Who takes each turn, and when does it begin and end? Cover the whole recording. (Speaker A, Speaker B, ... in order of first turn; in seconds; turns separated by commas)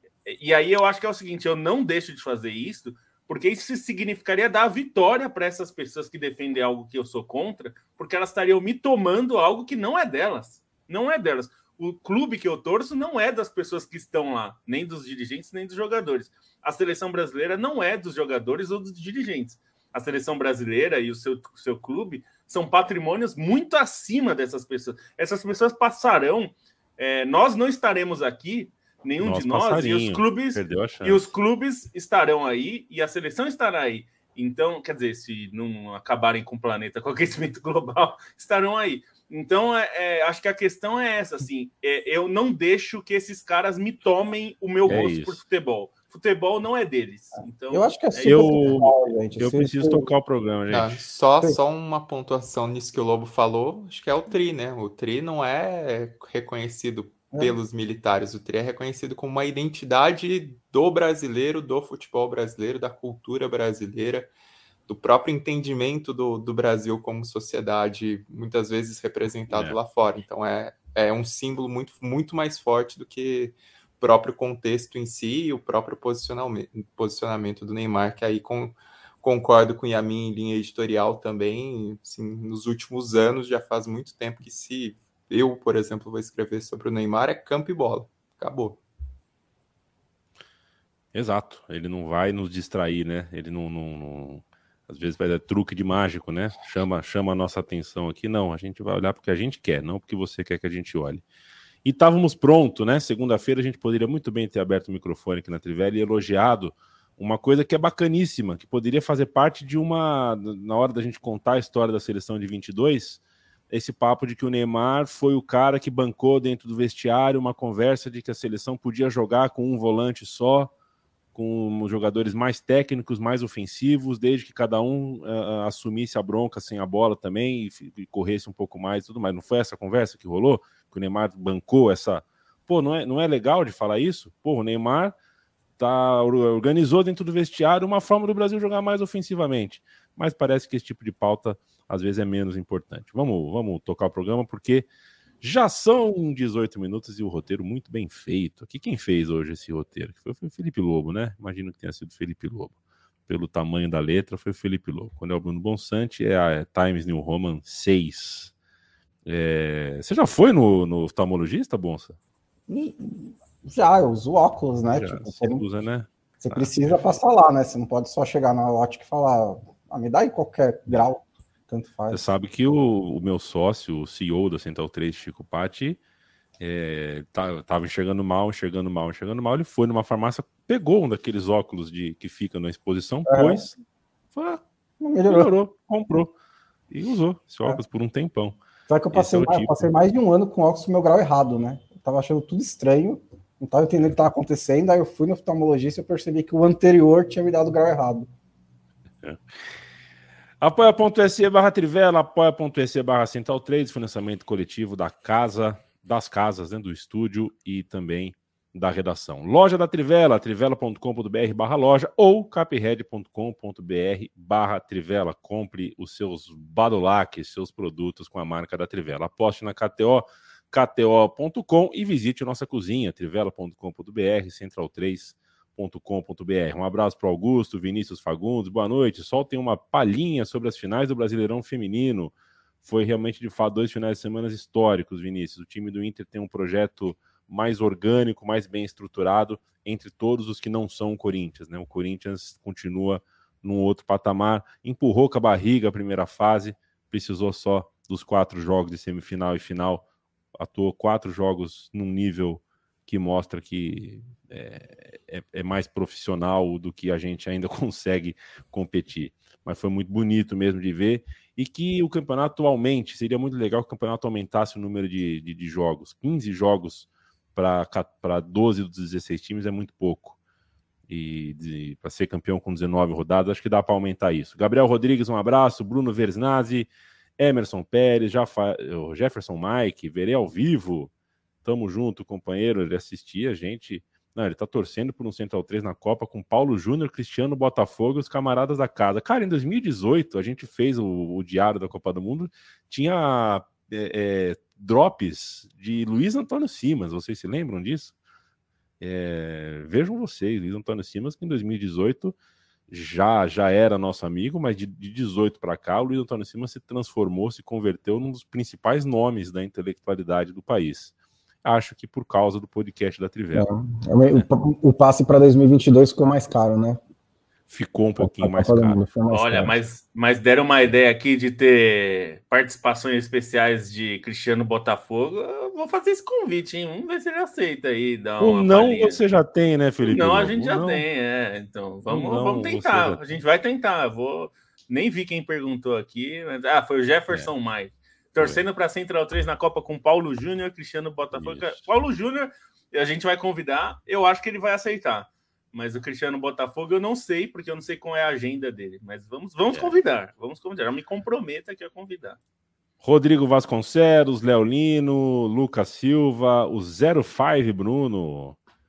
Speaker A: 0.2-48.4, Speaker B: 29.2-31.3, Speaker B: 44.9-45.4, Speaker C: 47.7-50.1, Speaker B: 48.2-51.0, Speaker D: 50.7-64.3, Speaker D: 64.9-88.8, Speaker B: 69.5-69.8, Speaker B: 91.1-101.2, Speaker B: 101.8-120.7, Speaker B: 121.3-135.2, Speaker B: 135.8-144.9, Speaker B: 145.4-152.8, Speaker B: 153.3-158.5, Speaker B: 159.2-162.2, Speaker C: 162.7-165.6, Speaker B: 164.9-167.0, Speaker C: 166.4-172.2, Speaker B: 172.1-176.0, Speaker B: 176.6-183.8, Speaker C: 183.3-183.6, Speaker B: 184.3-184.6, Speaker C: 185.0-185.5, Speaker B: 185.3-186.3, Speaker B: 186.9-188.6, Speaker C: 188.9-198.3, Speaker B: 189.1-189.9, Speaker B: 200.6-250.1, Speaker B: 250.6-270.4, Speaker B: 271.1-281.1, Speaker B: 281.6-298.1, Speaker B: 299.0-302.4, Speaker B: 302.9-311.1, Speaker B: 311.6-313.7, Speaker C: 313.5-317.0, Speaker B: 317.7-319.0, Speaker C: 318.2-319.7, Speaker A: 319.3-329.2, Speaker B: 328.4-331.1, Speaker A: 330.1-352.4, Speaker B: 332.1-333.4, Speaker B: 338.4-338.6, Speaker B: 341.3-341.9, Speaker B: 349.7-349.9, Speaker B: 353.0-358.6